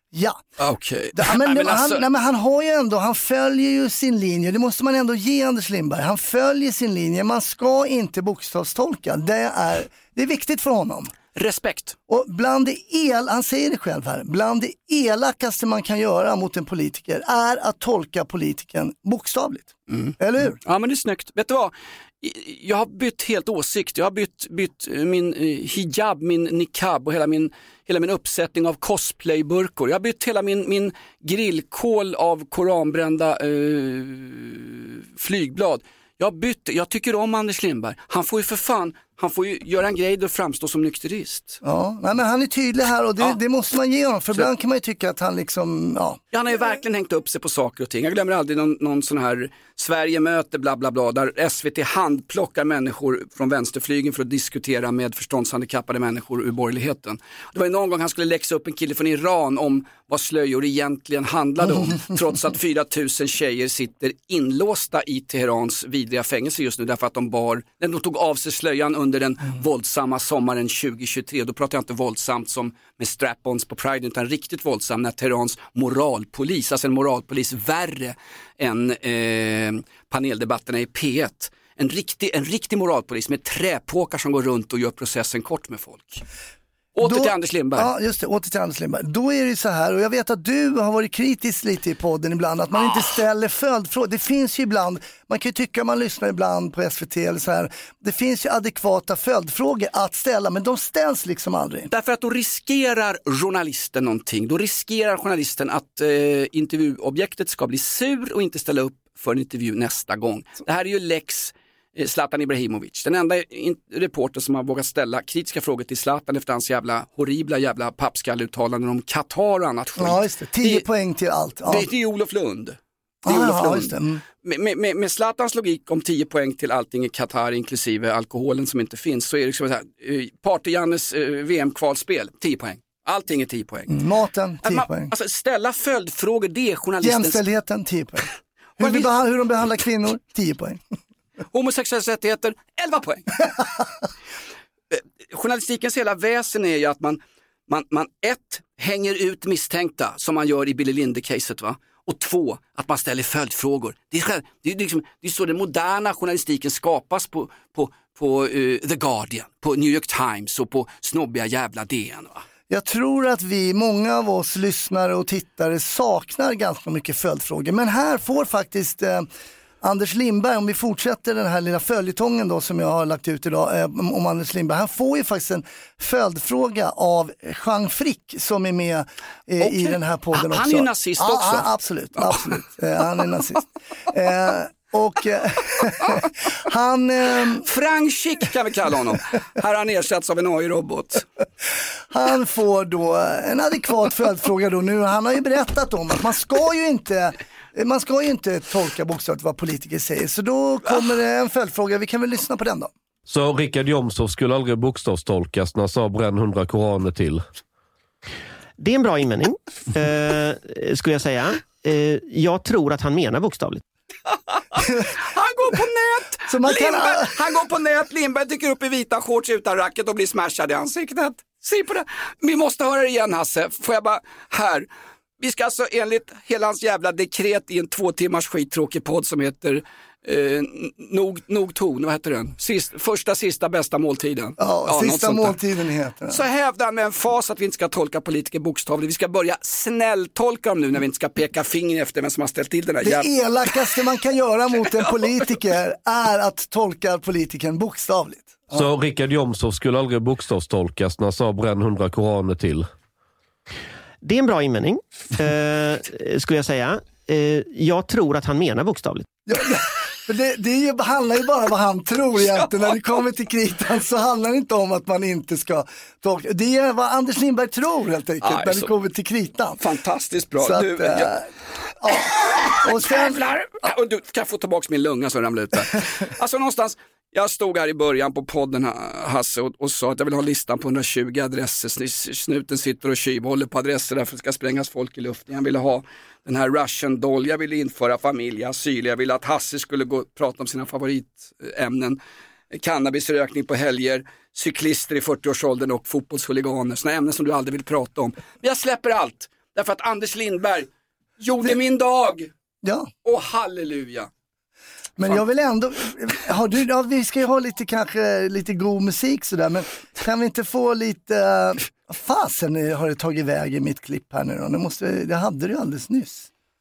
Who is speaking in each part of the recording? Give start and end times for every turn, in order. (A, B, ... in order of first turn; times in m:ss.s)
0:00.1-0:00.4 A
0:00.6-0:02.0 B
0:01.1-0:11.1 A
0:11.3-0:12.0 B
0:12.1-0:20.6 A
0:19.9-0:41.6 B
0:41.6-0:46.2 A
0:46.3-1:26.2 B
1:27.0-1:27.9 B
1:27.0-1:41.9 A
1:41.9-2:00.8 B
2:00.0-2:01.9 A
2:01.7-2:13.9 B
2:03.2-2:04.2 A
2:13.9-2:15.1 A
2:14.6-2:17.4 B
2:17.0-2:18.3 A
2:18.8-2:19.1 B
2:18.8-2:20.8 A
2:21.5-2:23.5 B
2:24.9-2:42.4 B
2:42.7-2:49.3 A
2:49.8-3:07.6 A
2:59.6-3:02.6 B
3:07.6-3:11.3 B
3:12.1-3:22.9 A
3:23.3-3:27.4 C
3:28.8-3:33.8 D
3:34.3-3:44.9 B
3:36.5-3:37.4 A
3:45.4-3:55.6 B
3:54.6-3:56.4 A
3:56.3-4:03.3 B
4:03.0-4:08.8 A
4:08.7-4:12.9 C
4:14.2-4:19.3 D
4:19.5-4:29.8 A
4:28.4-4:28.9 B
4:29.8-4:31.3 B
4:30.6-4:31.5 A
4:32.0-4:33.4 A
4:32.9-4:52.2 B
4:52.7-5:02.5 B
5:02.8-5:03.1 A
5:03.2-5:04.3 B
5:05.2-5:16.5 A